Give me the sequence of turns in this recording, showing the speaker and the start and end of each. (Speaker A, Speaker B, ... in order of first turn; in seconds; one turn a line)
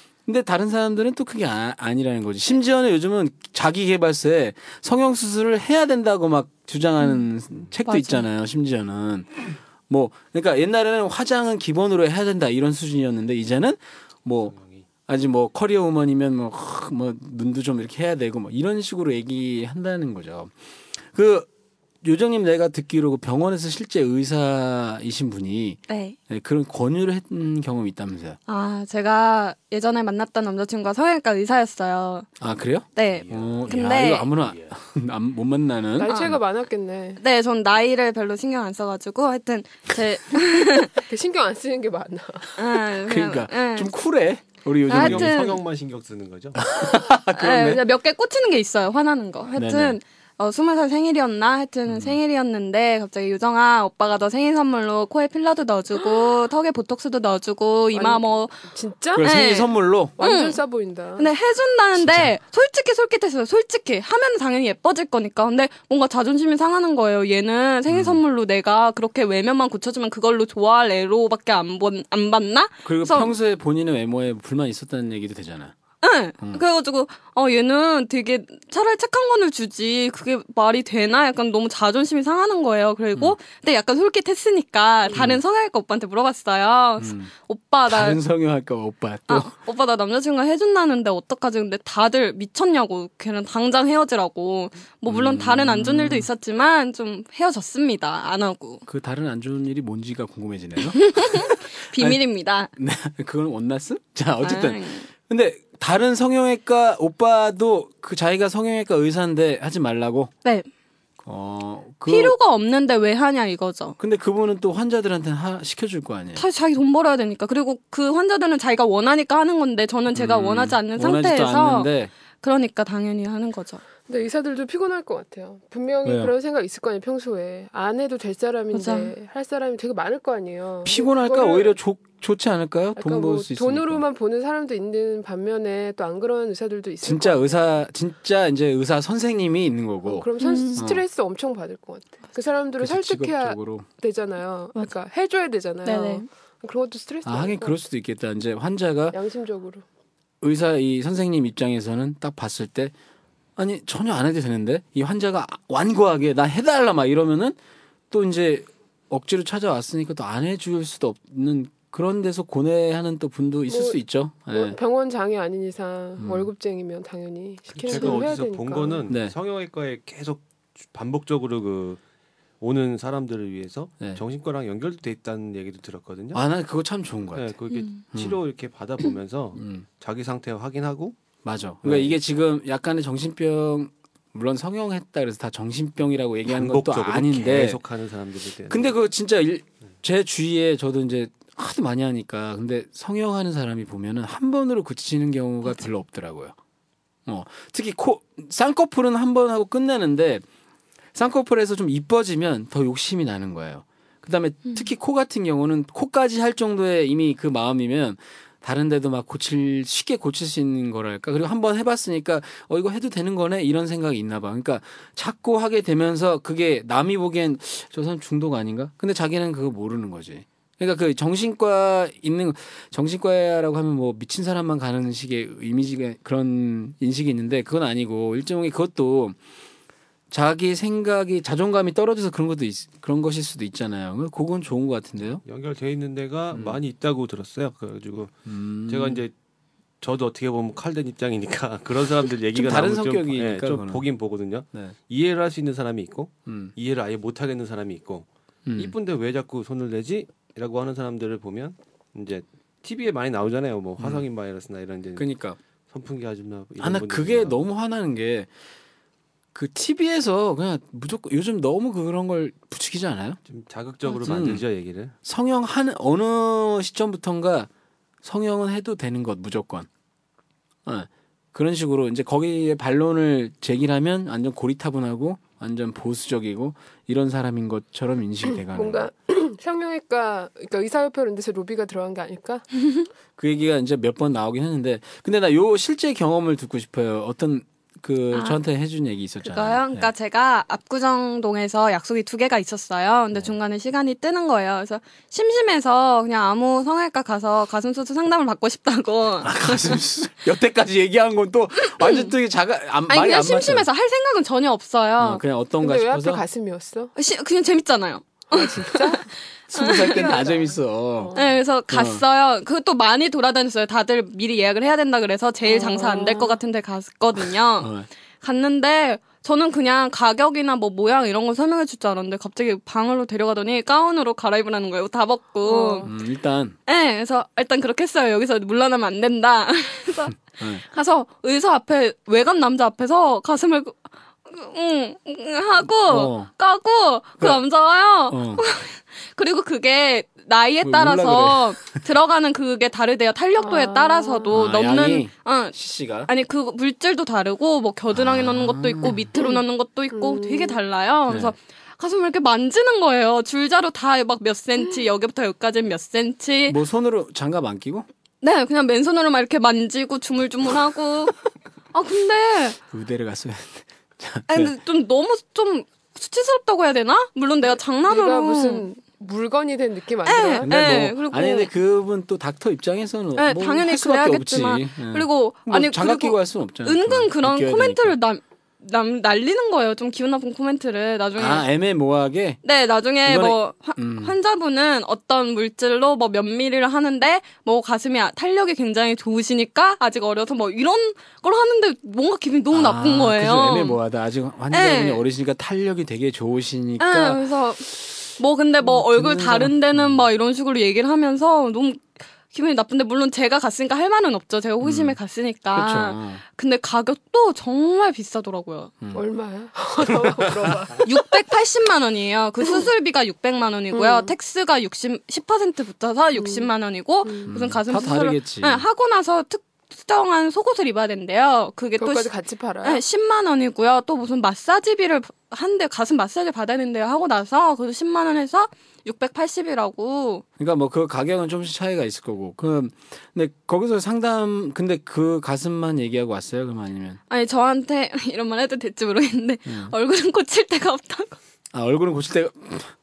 Speaker A: 0.3-14.6
Speaker B: 7.9-8.2
Speaker C: 14.5-14.9
Speaker A: 15.1-20.5
Speaker A: 21.1-21.5
Speaker A: 22.0-28.4
Speaker B: 25.9-26.2
Speaker B: 28.5-32.3
Speaker A: 32.4-36.4
Speaker B: 33.0-34.3
Speaker C: 33.1-34.8
Speaker D: 36.0-37.2
Speaker B: 36.1-36.4
Speaker B: 37.2-41.0
Speaker D: 41.0-42.6
Speaker B: 42.6-43.9
Speaker A: 43.1-45.4
Speaker B: 44.9-45.6
Speaker C: 44.9-46.6
Speaker A: 46.6-47.8
Speaker B: 47.3-58.6
Speaker A: 49.5-50.0
Speaker A: 51.9-52.2
Speaker D: 57.9-59.3
Speaker A: 59.1-60.1
Speaker B: 59.2-60.6
Speaker D: 60.2-61.3
Speaker B: 61.2-73.3
Speaker A: 62.0-62.3
Speaker A: 67.9-68.2
Speaker A: 72.8-75.7
Speaker B: 76.0-88.2
Speaker A: 85.1-85.4
Speaker A: 87.0-87.3
Speaker A: 87.9-89.5
Speaker B: 89.3-98.8
Speaker A: 95.1-96.3
Speaker A: 98.9-102.2
Speaker B: 101.0-102.7
Speaker A: 102.8-110.3
Speaker B: 104.4-105.1
Speaker A: 111.2-112.4
Speaker B: 112.1-114.0
Speaker A: 114.0-116.5
Speaker B: 116.4-121.9
Speaker A: 120.1-122.1
Speaker B: 122.4-123.8
Speaker D: 124.1-131.8
Speaker A: 126.0-126.3
Speaker B: 128.7-129.1
Speaker A: 130.8-134.0
Speaker D: 133.0-137.8
Speaker A: 137.0-141.0
Speaker D: 140.1-147.8
Speaker B: 140.4-140.8
Speaker A: 142.8-143.9
Speaker B: 145.8-146.3
Speaker A: 147.2-149.2
Speaker D: 149.1-149.8
Speaker A: 150.4-152.9
Speaker A: 153.6-157.6
Speaker A: 158.1-164.8
Speaker D: 163.7-169.1
Speaker A: 166.2-166.5
Speaker C: 167.7-172.0
Speaker A: 169.1-169.3
Speaker C: 172.6-176.4
Speaker A: 176.3-177.5
Speaker C: 177.3-181.2
Speaker B: 177.7-178.0
Speaker A: 178.1-178.4
Speaker A: 179.6-179.8
Speaker A: 181.4-187.8
Speaker C: 181.8-182.2
Speaker C: 186.5-188.9
Speaker A: 188.7-196.6
Speaker A: 197.3-200.4
Speaker A: 201.2-229.4
Speaker A: 230.3-235.4
Speaker C: 235.4-239.3
Speaker A: 236.5-236.8
Speaker A: 238.5-239.2
Speaker C: 240.0-255.3
Speaker A: 242.5-244.1
Speaker A: 246.5-246.7
Speaker A: 248.7-248.9
Speaker A: 254.0-254.2
Speaker A: 255.2-255.6
Speaker C: 255.9-257.6
Speaker A: 256.8-258.5
Speaker A: 259.5-263.4
Speaker C: 263.5-265.1
Speaker A: 264.1-264.6
Speaker A: 265.2-267.7
Speaker A: 268.2-269.9
Speaker A: 270.9-279.1
Speaker D: 278.5-282.6
Speaker A: 283.4-290.1
Speaker B: 288.3-288.6
Speaker B: 289.4-300.0
Speaker A: 299.4-303.9
Speaker B: 301.8-302.3
Speaker B: 303.1-305.4
Speaker A: 305.2-306.4
Speaker D: 305.8-307.1
Speaker B: 307.2-310.4
Speaker D: 308.5-309.3
Speaker A: 309.7-311.4
Speaker D: 309.8-311.6
Speaker B: 311.4-326.1
Speaker A: 311.9-312.2
Speaker D: 315.6-316.6
Speaker A: 317.8-318.1
Speaker D: 325.6-326.1
Speaker A: 326.1-326.8
Speaker B: 326.9-345.8
Speaker A: 330.5-330.9
Speaker A: 336.1-336.5
Speaker A: 338.3-338.6
Speaker A: 340.8-342.0
Speaker D: 343.6-344.6
Speaker A: 344.5-346.3
Speaker B: 346.3-356.8
Speaker A: 348.1-349.3
Speaker D: 349.4-349.6
Speaker D: 350.1-350.8
Speaker A: 351.3-351.5
Speaker A: 356.7-358.1
Speaker B: 358.4-361.4
Speaker B: 361.9-362.8
Speaker A: 362.9-364.7
Speaker B: 364.5-368.9
Speaker D: 368.1-370.7
Speaker B: 370.3-371.7
Speaker A: 370.6-378.2
Speaker B: 373.4-381.7
Speaker A: 381.4-382.6
Speaker B: 382.6-394.0
Speaker A: 383.2-384.4
Speaker A: 392.7-398.1
Speaker B: 394.7-395.2
Speaker B: 397.0-408.9
Speaker A: 398.8-400.3
Speaker A: 404.8-405.2
Speaker A: 405.7-406.4
Speaker D: 409.1-411.2
Speaker B: 411.1-422.3
Speaker D: 413.9-414.3
Speaker D: 416.4-416.7
Speaker D: 417.2-417.5
Speaker A: 417.5-418.9
Speaker D: 422.0-423.0
Speaker B: 422.8-430.4
Speaker A: 430.6-437.2
Speaker B: 437.3-441.4
Speaker A: 439.7-439.9
Speaker A: 441.7-442.9